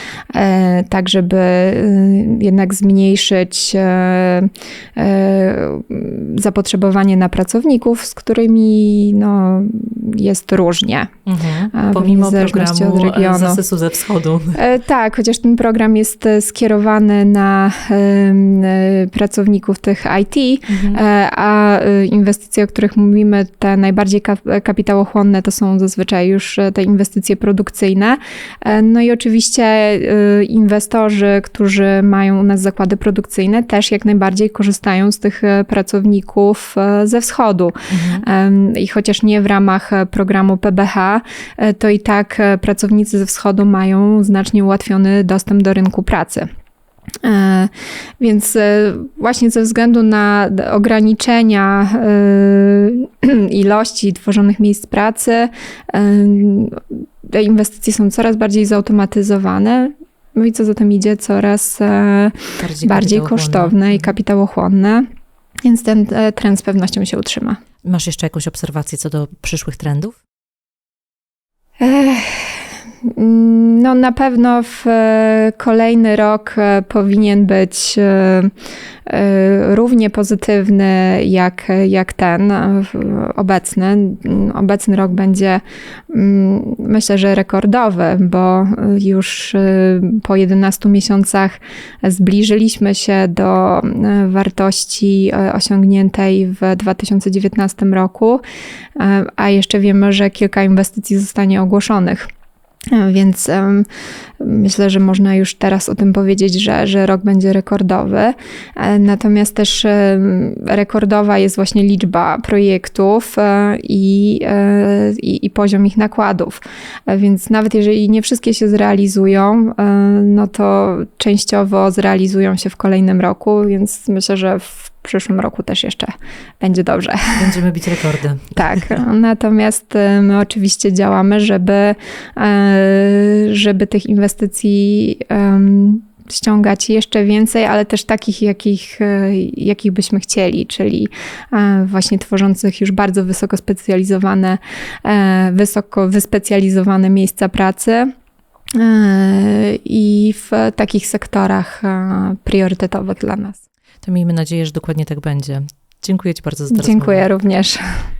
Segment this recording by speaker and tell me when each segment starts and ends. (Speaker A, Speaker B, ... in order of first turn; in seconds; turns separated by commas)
Speaker A: 0.3-11.1, Speaker B: 11.2-14.6, Speaker A: 11.7-13.6, Speaker A: 14.5-46.5, Speaker B: 20.7-21.0, Speaker B: 37.9-38.2, Speaker A: 47.2-65.1, Speaker B: 62.6-64.1, Speaker A: 65.6-67.6, Speaker B: 67.8-70.2, Speaker A: 71.8-78.5, Speaker A: 79.0-98.4, Speaker A: 99.0-102.3, Speaker A: 102.9-103.8, Speaker A: 104.4-127.6, Speaker B: 127.3-128.8, Speaker A: 128.6-148.1, Speaker A: 148.7-153.6, Speaker B: 154.0-157.3, Speaker A: 156.7-158.0